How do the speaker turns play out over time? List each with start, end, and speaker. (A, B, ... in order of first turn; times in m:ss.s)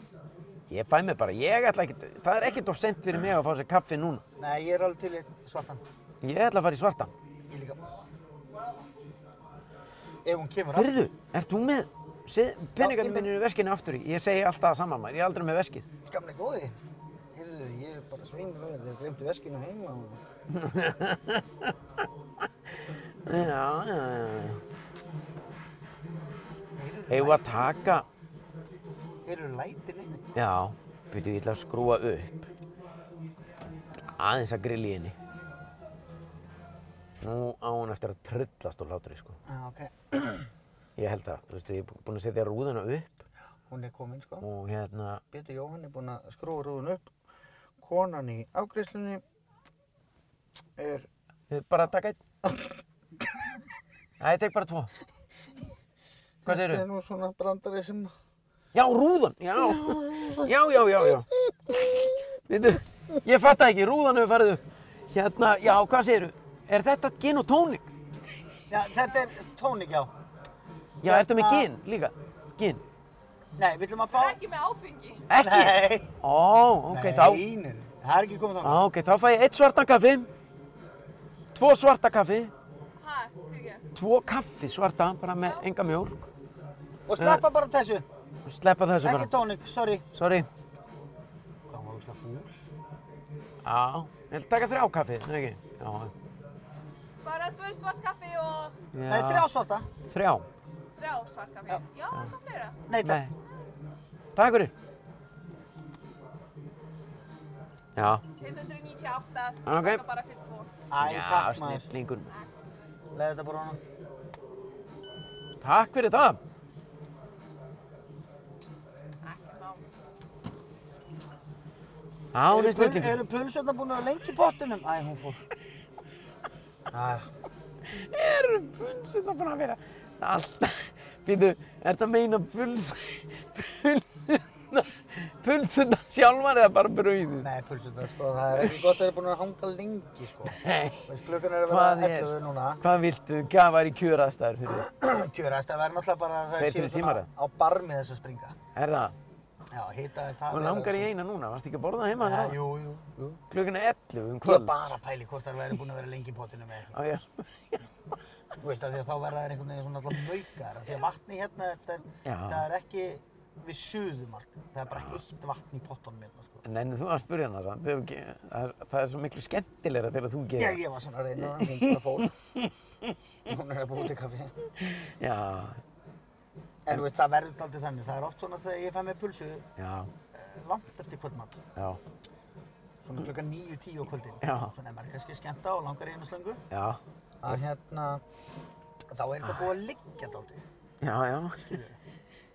0:00.7-0:04.2 A
0:04.4-0:05.8 B
0:06.2-0:07.1 A
0:07.5-0:07.8 B
0:10.2-0:11.0 B
0:10.7-0:15.9 A
0:12.8-0:13.3 B
0:16.1-0:16.8 B
0:17.3-0:20.2 B
0:20.5-0:21.7 A
0:23.2-0:24.6 A
0:26.8-0:27.9 B
0:27.1-0:28.0 A
0:29.2-0:30.2 B
0:30.3-0:32.5 A
0:34.2-0:35.1 A
0:37.2-0:39.4 A
0:39.4-0:40.5 B
0:41.0-0:43.2 A
0:43.7-0:44.5 B
0:44.4-0:45.2 A
0:45.3-0:47.1 B
0:47.8-0:49.2 B
0:50.8-0:51.1 B
0:51.5-0:52.2 A
0:54.2-0:54.9 A
0:56.4-0:58.1 B
0:56.4-0:56.8 A
0:58.7-1:01.3 A
0:59.6-1:02.1 B
1:02.5-1:07.9 A
1:08.7-1:10.1 B
1:11.0-1:11.7 B
1:11.0-1:12.8 A
1:13.6-1:14.4 B
1:14.1-1:15.3 C
1:15.3-1:17.4 A
1:15.4-1:16.1 B
1:16.9-1:18.8 B
1:18.6-1:20.3 A
1:21.5-1:22.5 A
1:23.0-1:23.8 C
1:23.9-1:26.3 A
1:25.4-1:25.6 C
1:27.1-1:28.0 B
1:27.2-1:27.4 A
1:28.4-1:29.3 A
1:29.0-1:30.1 B
1:30.1-1:30.5 A
1:31.7-1:32.5 B
1:33.6-1:36.1 A
1:37.2-1:38.7 C
1:38.9-1:39.5 A
1:39.1-1:39.9 B
1:40.1-1:40.4 A
1:41.0-1:42.8 C
1:42.9-1:43.3 B
1:43.0-1:43.3 A
1:44.3-1:44.7 A
1:48.0-1:48.2 A
1:48.4-1:50.7 C
1:49.6-1:50.0 A
1:50.9-1:51.9 B
1:51.0-1:52.3 A
1:52.3-1:52.6 C
1:53.1-1:53.8 B
1:55.6-1:56.4 A
1:59.2-1:59.8 C
2:02.3-2:03.2 A
2:02.5-2:05.4 B
2:06.9-2:07.3 B
2:07.9-2:17.5 A
2:17.4-2:20.6 B
2:20.5-2:21.1 A
2:21.1-2:22.8 B
2:21.6-2:24.9 A
2:24.7-2:28.6 B
2:26.6-2:27.3 A
2:28.7-2:29.1 A
2:29.7-2:31.1 B
2:30.5-2:32.6 A
2:32.2-2:33.4 B
2:33.5-2:34.8 A
2:34.4-2:37.0 B
2:36.9-2:37.8 A
2:38.6-2:46.6 B
2:42.2-2:42.6 A
2:44.9-2:45.2 A
2:46.6-2:50.8 A
2:50.6-2:52.3 B
2:51.4-2:53.1 A
2:53.5-2:54.5 B
2:54.8-2:55.8 A
2:56.8-2:59.6 B
2:59.8-3:00.1 A
3:00.3-3:01.6 B
3:03.0-3:06.6 B
3:04.4-3:04.7 A
3:06.7-3:07.6 A
3:07.4-3:08.2 B
3:09.1-3:10.6 B
3:11.0-3:11.8 A
3:11.7-3:12.0 B